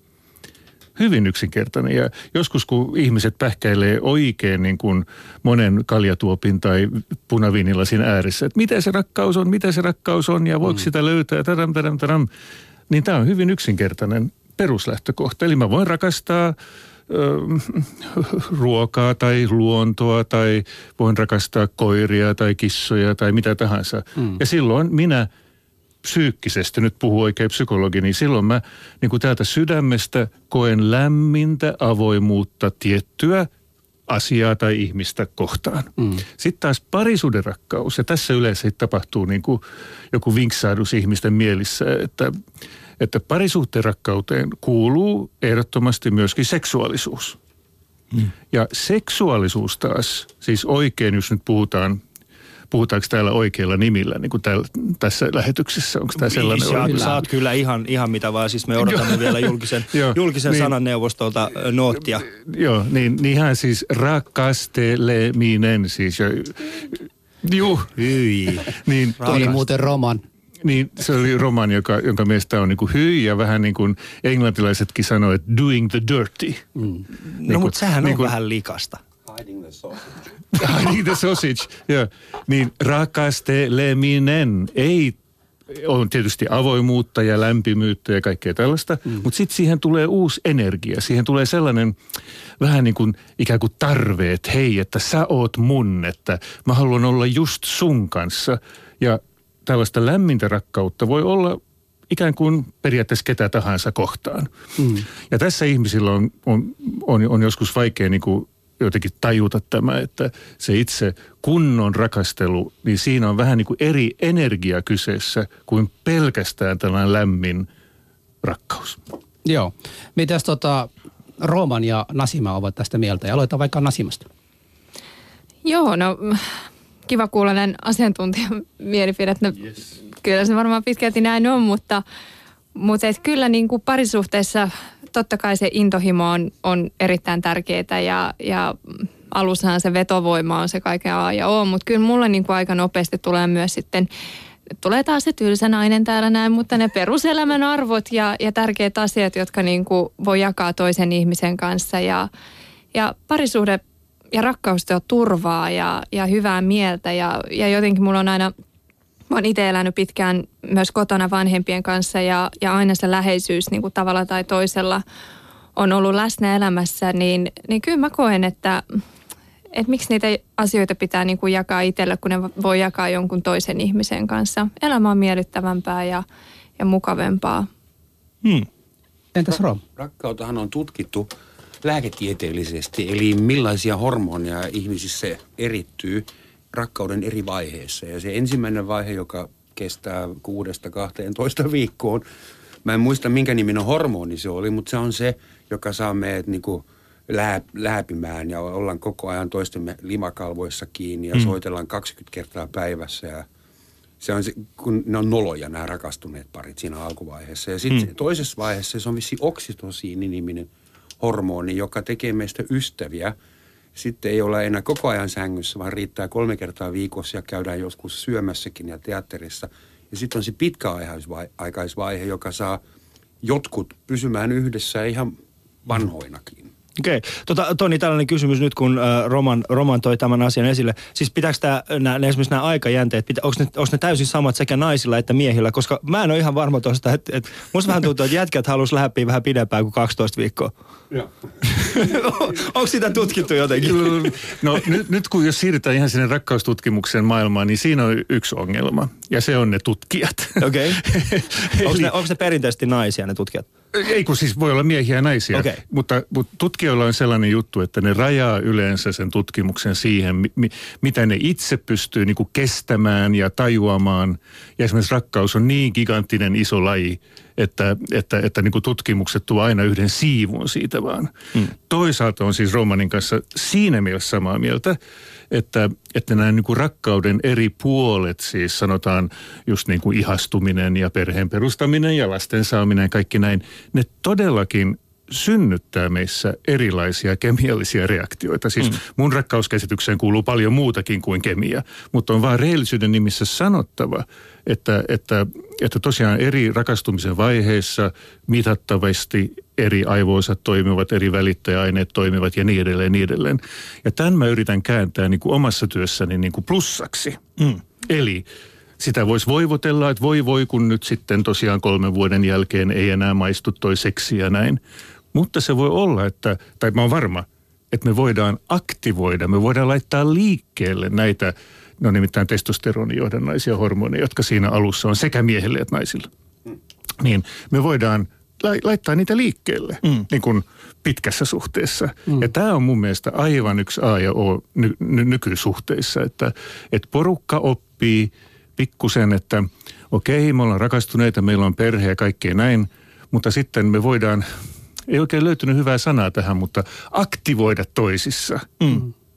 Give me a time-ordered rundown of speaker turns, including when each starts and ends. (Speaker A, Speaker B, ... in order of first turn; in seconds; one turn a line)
Speaker A: 0.9-12.3
Speaker A: 12.9-16.6
Speaker A: 17.1-25.3
Speaker A: 26.0-33.5
Speaker A: 34.1-39.6
Speaker A: 40.1-42.4
Speaker A: 43.0-47.4
Speaker A: 48.5-52.0
Speaker A: 52.7-57.2
Speaker B: 56.2-62.2
Speaker A: 58.8-60.7
Speaker A: 62.3-68.0
Speaker B: 68.0-69.5
Speaker A: 68.6-69.6
Speaker C: 69.3-70.2
Speaker A: 70.6-76.6
Speaker B: 77.2-79.0
Speaker A: 77.5-78.3
Speaker D: 79.3-80.3
Speaker A: 80.5-85.2
Speaker A: 85.7-92.0
Speaker A: 92.6-101.6
Speaker A: 102.1-104.5
Speaker A: 105.3-117.7
Speaker A: 118.4-119.0
Speaker C: 119.4-124.2
Speaker E: 125.6-132.0
Speaker E: 132.8-144.1
Speaker E: 144.8-152.3
Speaker E: 152.9-153.8
Speaker E: 154.3-158.5
Speaker E: 159.3-165.0
Speaker E: 165.8-168.8
Speaker E: 169.7-176.2
Speaker E: 176.8-177.7
Speaker C: 179.3-179.8
Speaker D: 179.9-181.3
Speaker D: 181.8-192.2
Speaker D: 192.8-203.4
Speaker D: 204.2-213.3
Speaker D: 213.9-222.8
Speaker D: 223.4-226.7
Speaker B: 227.0-240.7
Speaker B: 241.6-244.4
Speaker A: 243.8-252.1
Speaker B: 250.6-251.0
Speaker B: 251.8-253.7
Speaker A: 253.9-275.0
Speaker B: 255.5-255.8
Speaker A: 275.5-307.4
Speaker A: 308.0-308.4
Speaker A: 309.0-314.8
Speaker A: 315.3-326.3
Speaker A: 327.2-344.4
Speaker A: 345.1-348.7
Speaker B: 348.8-349.1